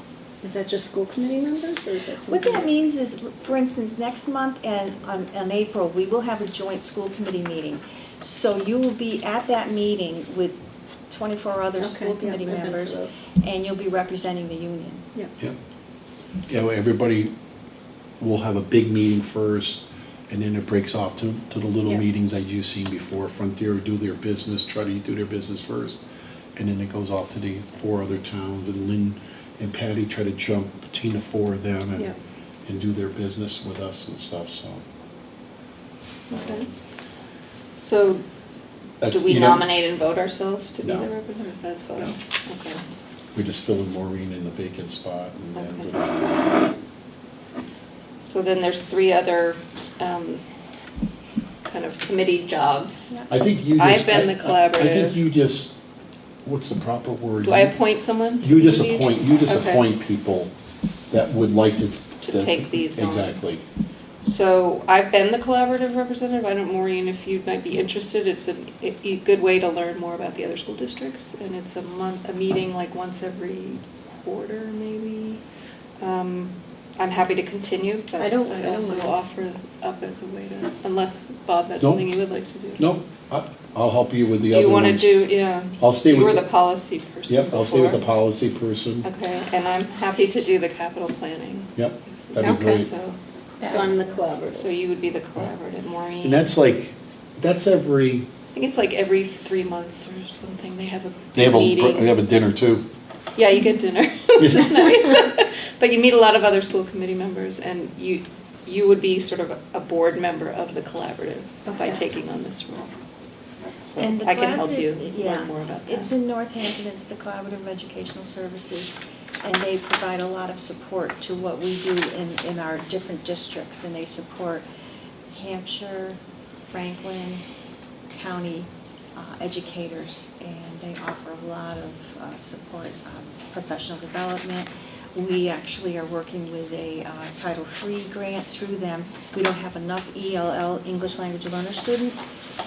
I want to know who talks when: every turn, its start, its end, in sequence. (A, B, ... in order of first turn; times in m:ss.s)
0:00.4-0:02.7 A
0:02.3-0:15.0 B
0:11.8-0:13.2 A
0:16.5-0:17.3 C
0:18.2-0:26.0 C
0:26.6-0:32.1 C
0:32.6-0:34.8 C
0:36.3-0:36.7 D
0:37.8-0:38.2 D
0:39.0-0:39.7 C
0:39.1-0:42.8 D
0:40.8-0:41.1 C
0:43.3-0:46.4 C
0:45.5-0:45.9 D
0:48.2-0:50.4 D
0:51.6-0:53.1 D
0:53.3-0:55.8 C
0:53.8-0:55.2 D
0:56.4-0:57.7 C
0:57.4-0:59.8 D
0:58.4-1:00.5 C
1:01.1-1:03.6 C
1:02.2-1:03.3 D
1:04.2-1:15.4 D
1:16.0-1:22.9 D
1:18.2-1:19.1 A
1:21.8-1:22.0 C
1:22.8-1:25.2 C
1:24.5-1:28.0 D
1:25.8-1:26.5 C
1:27.3-1:29.1 C
1:29.0-1:31.7 D
1:31.8-1:32.9 C
1:32.3-1:33.2 D
1:32.4-1:32.9 A
1:33.6-1:34.7 A
1:33.6-1:34.1 B
1:34.5-1:36.5 D
1:36.2-1:38.3 C
1:38.5-1:42.2 D
1:41.3-1:42.8 C
1:43.4-1:52.9 D
1:44.4-1:44.8 C
1:51.6-1:52.0 A
1:53.9-1:56.1 D
1:54.0-2:04.6 B
2:05.3-2:06.2 B
2:06.7-2:07.4 B
2:08.1-2:22.2 B